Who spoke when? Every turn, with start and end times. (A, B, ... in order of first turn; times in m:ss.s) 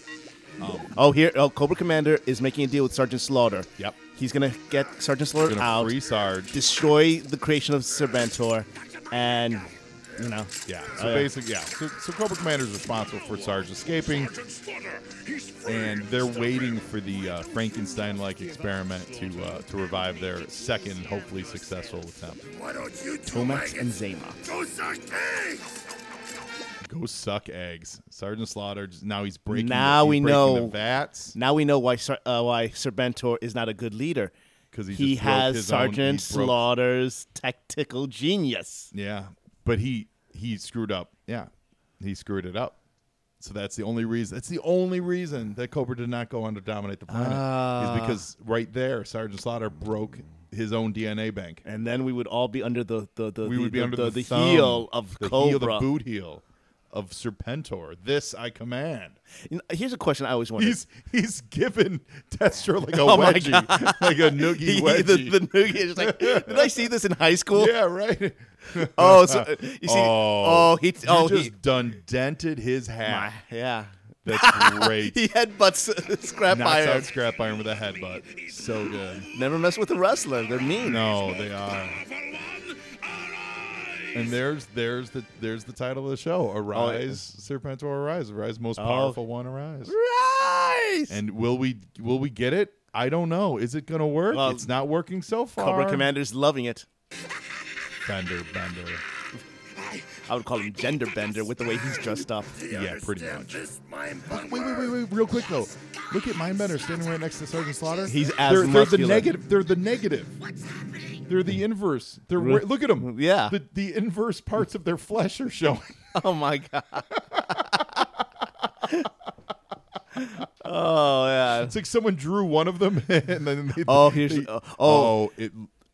0:00.6-0:01.0 A
0:00.9-0:05.9 B
0:05.4-0:06.6 A
0:06.5-0:11.3 B
0:10.7-0:14.4 A
0:13.1-0:16.8 C
0:15.6-0:22.4 A
0:17.9-0:21.9 C
0:22.5-0:23.9 C
0:23.2-0:24.4 B
0:24.5-0:25.8 C
0:26.8-0:31.4 A
0:29.5-0:30.8 B
0:31.4-0:34.3 B
0:34.7-0:36.7 A
0:34.9-0:38.9 B
0:38.9-0:42.8 A
0:43.4-0:51.6 A
0:47.1-0:48.2 B
0:51.6-0:55.9 B
0:53.4-0:59.2 A
0:59.4-1:00.8 B
1:00.6-1:06.9 A
1:03.0-1:07.8 B
1:07.5-1:13.3 A
1:08.8-1:11.5 B
1:13.0-1:17.1 B
1:14.2-1:15.3 A
1:16.1-1:16.4 C
1:16.5-1:19.3 A
1:17.2-1:17.5 C
1:18.0-1:19.3 C
1:19.3-1:21.1 B
1:20.4-1:24.4 C
1:20.8-1:22.0 A
1:24.1-1:29.9 A
1:26.7-1:27.2 B
1:28.8-1:29.2 B
1:29.8-1:31.2 B
1:31.1-1:36.1 A
1:34.3-1:34.7 B
1:35.6-1:36.9 B
1:38.0-1:39.0 A
1:39.8-1:40.1 C
1:40.1-1:42.6 B
1:42.6-1:44.9 C
1:42.7-1:43.7 A
1:44.2-1:50.4 A
1:48.1-1:49.3 B
1:51.3-1:56.2 A
1:52.4-1:53.6 B
1:56.2-1:58.0 B
1:57.2-1:58.0 A
1:58.8-1:59.1 B
2:00.2-2:01.8 B
2:01.6-2:05.7 A
2:03.8-2:05.2 B